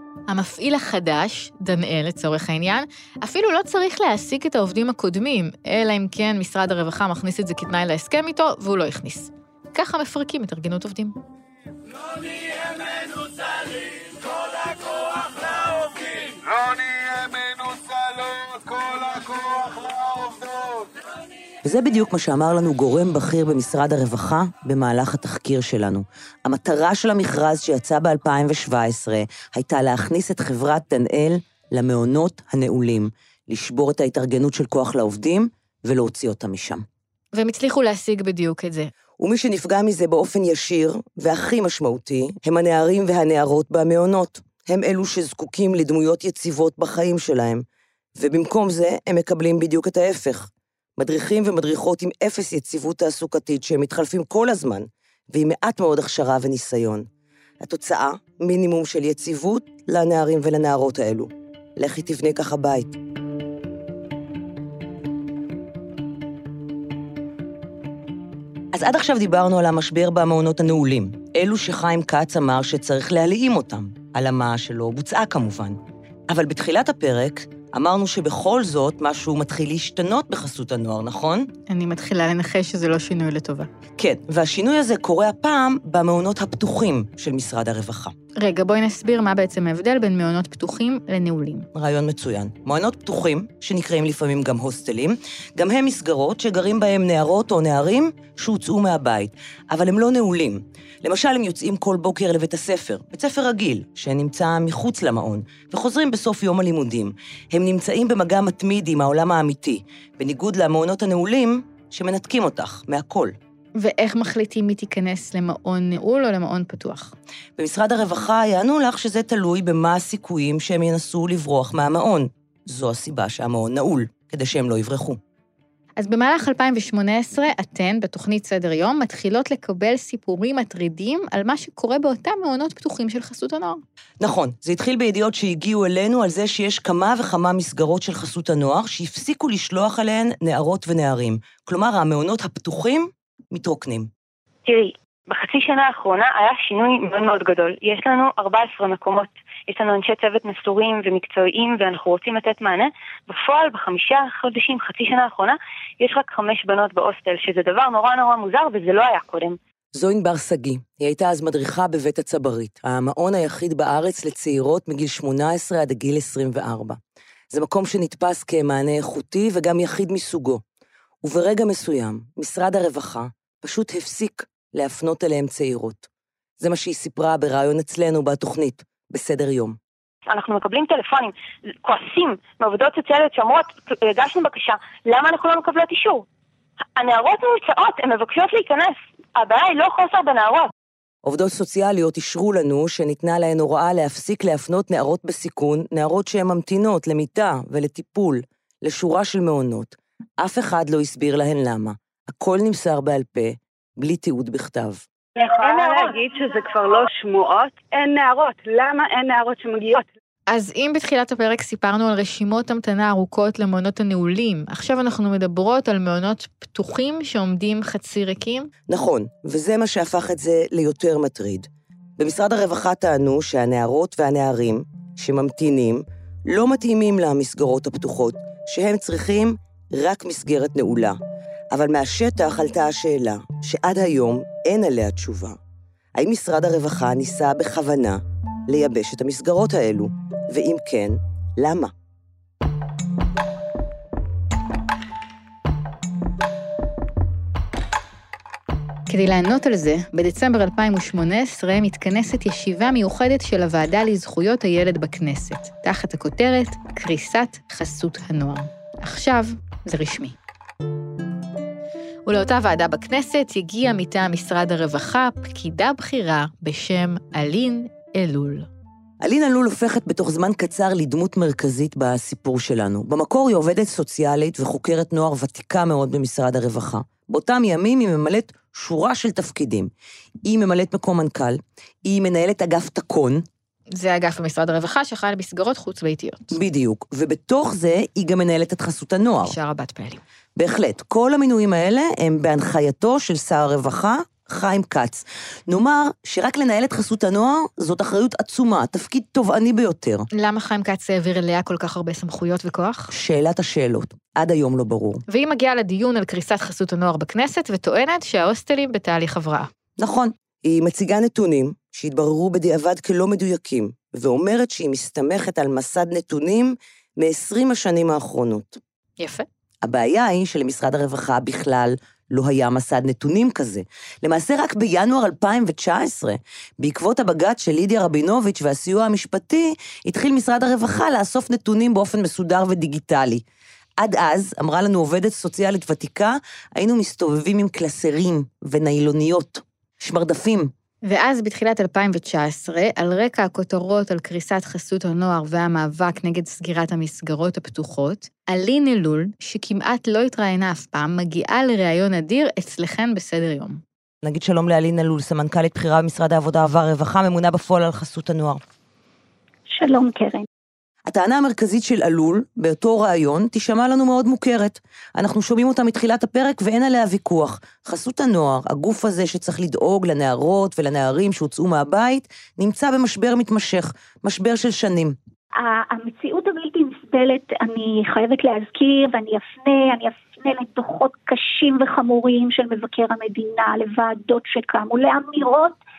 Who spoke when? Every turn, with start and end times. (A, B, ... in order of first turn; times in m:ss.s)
0:00.3-0:11.2 A
0:21.6-0:36.8 B
0:37.3-0:38.9 A
0:39.2-0:47.6 B
0:48.2-0:57.1 B
0:57.6-1:03.0 B
1:08.7-1:21.5 B
1:21.7-1:23.7 A
1:24.0-1:28.2 B
1:28.4-1:31.7 A
1:31.7-1:53.4 B
1:53.8-1:57.1 A
1:57.6-2:05.2 B
2:06.0-2:13.8 A
2:14.2-2:24.1 B
2:24.7-2:39.6 C
2:39.9-2:47.0 B
2:47.5-2:50.6 B
2:51.2-2:56.1 B
2:56.6-2:59.8 B
3:00.3-3:06.3 C
3:07.0-3:10.7 C
3:11.2-3:25.0 B
3:25.4-3:30.1 D
3:30.5-3:38.7 A
3:38.9-3:51.2 B
3:51.7-3:55.6 B
3:56.2-4:01.9 B
4:09.1-4:20.4 A
4:22.3-4:28.7 A
4:29.2-4:39.9 B
4:40.4-4:43.5 B
4:44.0-4:46.6 A
4:46.5-4:49.6 B
4:49.4-4:50.2 A
4:50.6-5:00.3 B
5:00.4-5:03.1 A
5:03.1-5:05.2 B
5:05.3-5:09.7 A
5:10.0-5:18.8 B
5:19.2-5:19.5 A
5:19.8-5:33.4 B
5:34.0-5:40.7 B
5:41.1-5:53.8 A
5:54.2-5:58.6 B
5:59.7-6:00.5 E
6:01.1-6:15.2 B
6:15.6-6:25.8 E